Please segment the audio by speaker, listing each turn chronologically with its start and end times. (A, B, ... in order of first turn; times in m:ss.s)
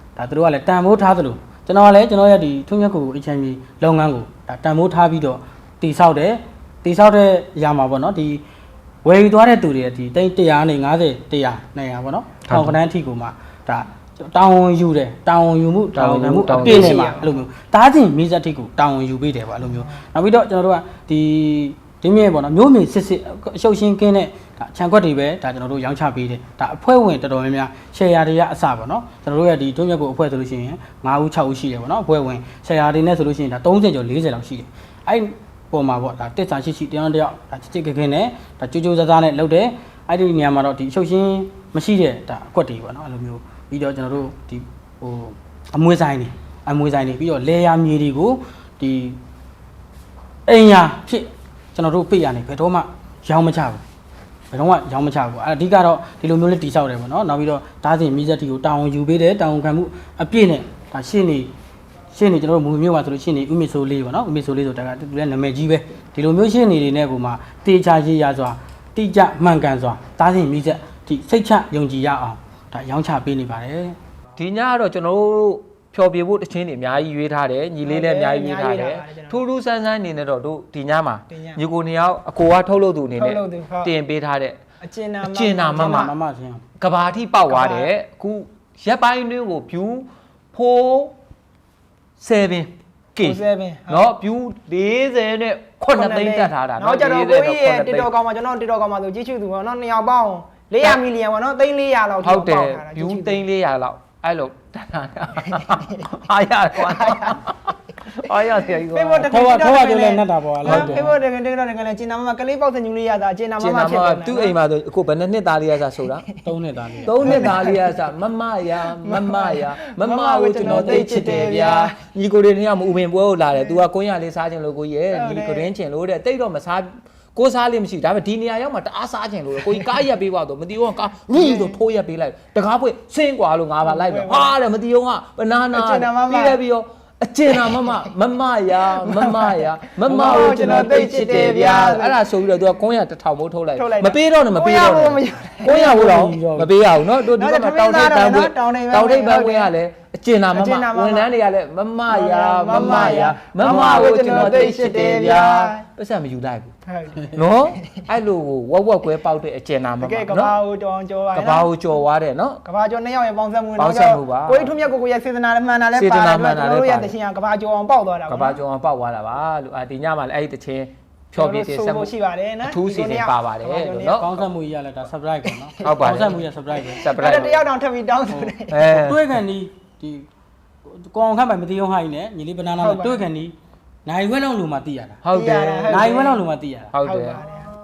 0:00.2-0:08.4 A
0:09.0-0:49.2 A
0:12.4-0:12.8 B
0:16.0-0:17.1 B
0:16.5-0:17.4 C
0:50.5-0:53.8 A
0:54.5-1:01.5 A
1:02.1-1:14.0 A
1:14.4-1:24.6 B
1:17.8-1:19.4 C
1:21.3-1:21.6 C
1:23.2-1:23.9 C
1:24.8-1:26.1 C
1:25.2-1:26.1 B
1:25.8-1:26.6 A
1:26.8-1:31.2 B
1:27.5-1:27.9 C
1:32.2-1:38.1 B
1:33.2-1:34.1 C
1:35.9-1:43.4 C
1:42.2-1:49.3 B
1:45.4-1:46.3 C
1:46.8-1:47.4 C
1:48.9-1:54.6 C
1:49.3-1:51.2 A
1:50.6-1:51.1 B
1:53.6-1:56.3 B
1:56.4-1:57.5 A
1:57.0-1:58.0 C
1:57.0-2:36.7 B
1:59.0-2:02.0 C
2:03.5-2:03.8 C
2:05.1-2:05.7 C
2:11.3-2:11.8 C
2:13.8-2:14.5 C
2:15.7-2:16.6 C
2:17.5-2:18.0 C
2:18.8-2:22.2 C
2:20.1-2:20.9 A
2:23.8-2:26.0 C
2:25.7-2:26.7 A
2:27.2-2:29.7 C
2:30.5-2:31.3 C
2:32.1-2:35.8 C
2:32.7-2:34.2 A
2:36.9-2:38.0 C
2:37.3-2:40.6 B
2:40.0-2:41.7 C
2:41.3-2:42.6 B
2:42.6-2:48.6 C
2:43.8-2:44.7 B
2:46.0-2:47.1 B
2:48.3-2:54.3 B
2:51.3-2:54.3 C
2:54.1-2:57.1 A
2:55.4-2:56.2 C
2:55.8-2:56.4 B
2:56.9-2:58.9 C
2:57.0-2:57.7 B
2:58.3-3:00.3 A
2:58.7-2:59.3 B
3:00.9-3:05.2 A
3:02.8-3:03.3 C
3:05.2-3:06.1 B
3:05.3-3:06.4 C
3:05.9-3:06.9 A
3:06.9-3:07.4 B
3:07.0-3:07.7 C